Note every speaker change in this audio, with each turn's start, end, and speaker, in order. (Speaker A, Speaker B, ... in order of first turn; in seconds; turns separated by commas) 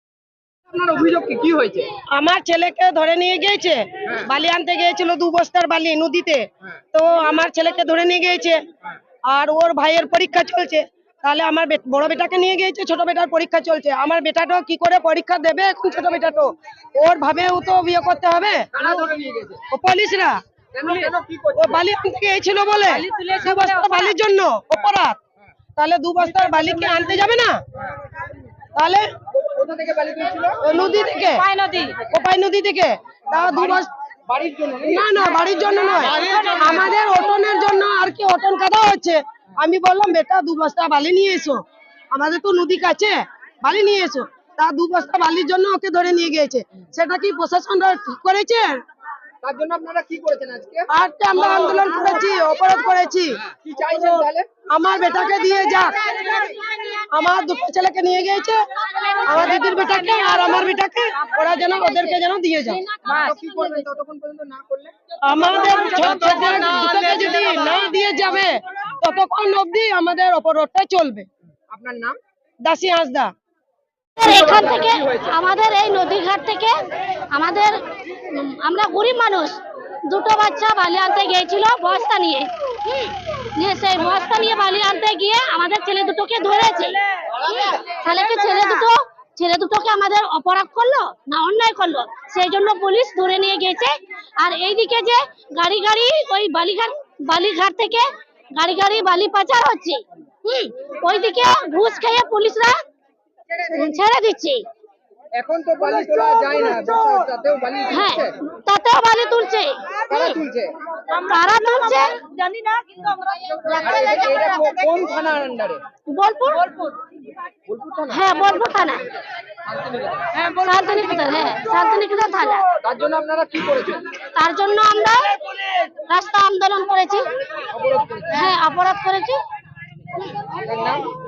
Speaker A: 0.7-2.0, Speaker B: 2.1-8.6, Speaker B: 9.3-18.7, Speaker A: 18.8-19.7, Speaker B: 19.7-20.4, Speaker A: 20.7-21.7, Speaker B: 21.6-25.2, Speaker B: 25.8-27.6, Speaker B: 28.8-29.1, Speaker A: 29.4-30.7, Speaker B: 30.6-33.9, Speaker A: 34.3-35.0, Speaker B: 34.9-41.6, Speaker A: 36.0-36.8, Speaker B: 42.1-48.8, Speaker A: 49.4-50.9, Speaker B: 50.9-53.4, Speaker A: 53.5-54.5, Speaker B: 54.7-56.4, Speaker B: 57.1-58.6, Speaker B: 59.2-62.8, Speaker A: 63.0-64.9, Speaker B: 65.2-71.3, Speaker A: 65.5-67.6, Speaker A: 71.7-72.2, Speaker B: 72.6-73.3, Speaker C: 74.2-76.8, Speaker A: 74.6-75.3, Speaker C: 77.3-102.8, Speaker A: 103.5-103.8, Speaker C: 103.7-104.7, Speaker A: 105.3-108.4, Speaker B: 105.8-107.3, Speaker C: 107.9-110.4, Speaker A: 110.1-110.8, Speaker C: 111.1-112.9, Speaker A: 113.7-115.8, Speaker C: 116.1-116.7, Speaker A: 117.7-118.2, Speaker C: 118.1-119.0, Speaker A: 119.7-120.4, Speaker C: 120.4-122.7, Speaker A: 122.8-124.2, Speaker C: 124.3-127.2, Speaker A: 127.7-128.4, Speaker C: 128.3-129.4, Speaker A: 130.6-131.1